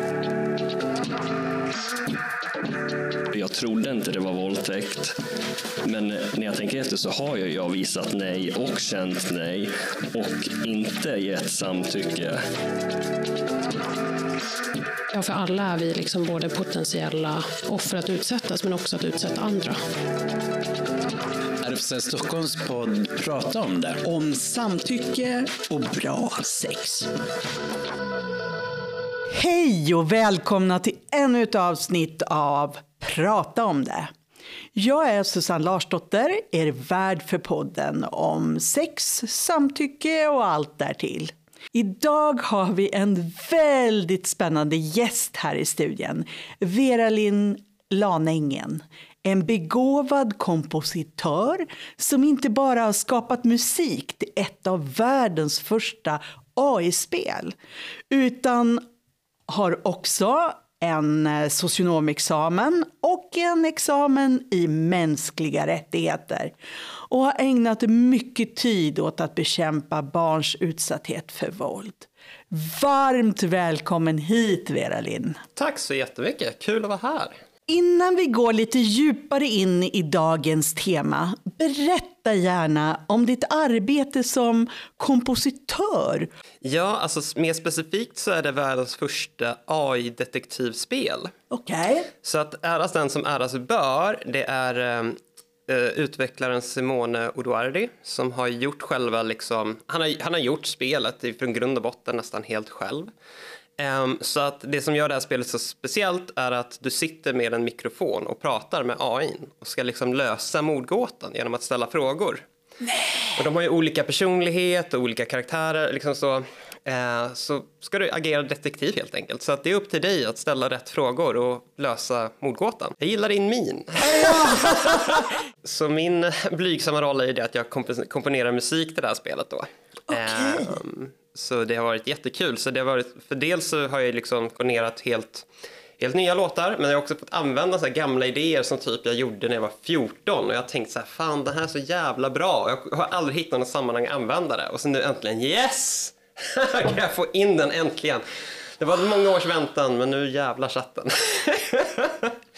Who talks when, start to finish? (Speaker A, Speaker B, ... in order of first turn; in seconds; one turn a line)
Speaker A: 3.3-5.2
Speaker A: 5.8-12.4
Speaker B: 15.1-19.8
Speaker C: 21.6-24.7
Speaker D: 24.5-26.9
Speaker C: 25.5-26.7
Speaker D: 29.3-34.1
Speaker D: 34.8-57.5
Speaker D: 58.1-58.9
Speaker D: 59.5-66.5
Speaker D: 67.1-75.4
Speaker E: 75.6-77.4
Speaker D: 77.7-86.3
Speaker E: 86.6-91.3
Speaker D: 91.5-92.1
Speaker E: 92.2-103.1
Speaker E: 103.8-112.5
Speaker E: 113.3-135.5
Speaker D: 130.1-130.8
Speaker E: 136.0-152.4